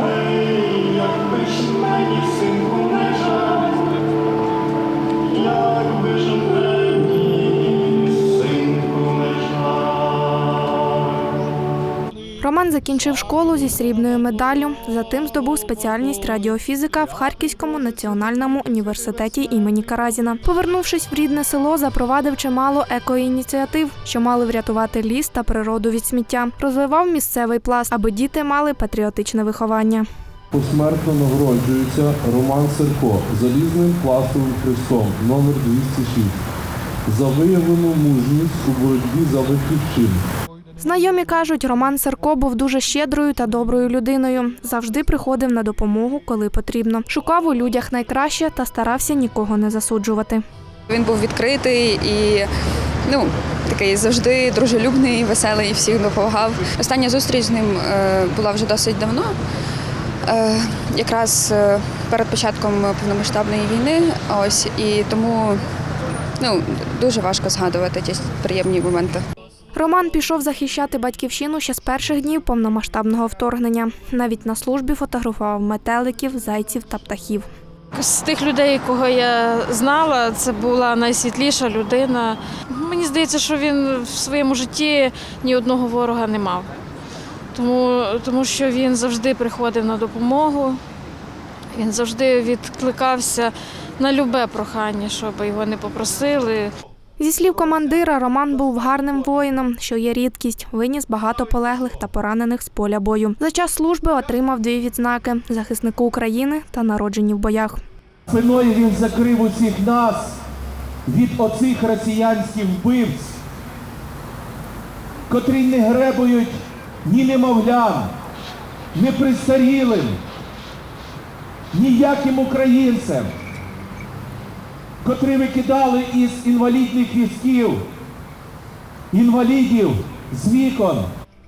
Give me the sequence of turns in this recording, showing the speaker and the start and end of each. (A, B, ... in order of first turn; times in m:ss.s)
0:00.5-0:03.6 A
0:08.7-0:09.2 A
0:12.4-0:30.1 B
0:30.5-0:36.4 C
0:37.1-0:40.2 C
0:40.8-0:50.4 B
0:50.9-0:52.5 D
0:53.1-0:59.4 D
1:00.3-1:05.6 D
1:06.4-1:09.2 D
1:09.7-1:17.5 B
1:18.0-1:26.7 E
1:27.5-1:30.8 E
1:31.7-1:36.7 E
1:37.2-1:47.8 B
1:48.3-1:50.4 A
1:51.1-1:53.4 A
1:55.3-1:58.1 A
1:58.9-2:00.2 A
2:01.7-2:03.3 A
2:05.0-2:07.8 A
2:09.1-2:11.1 A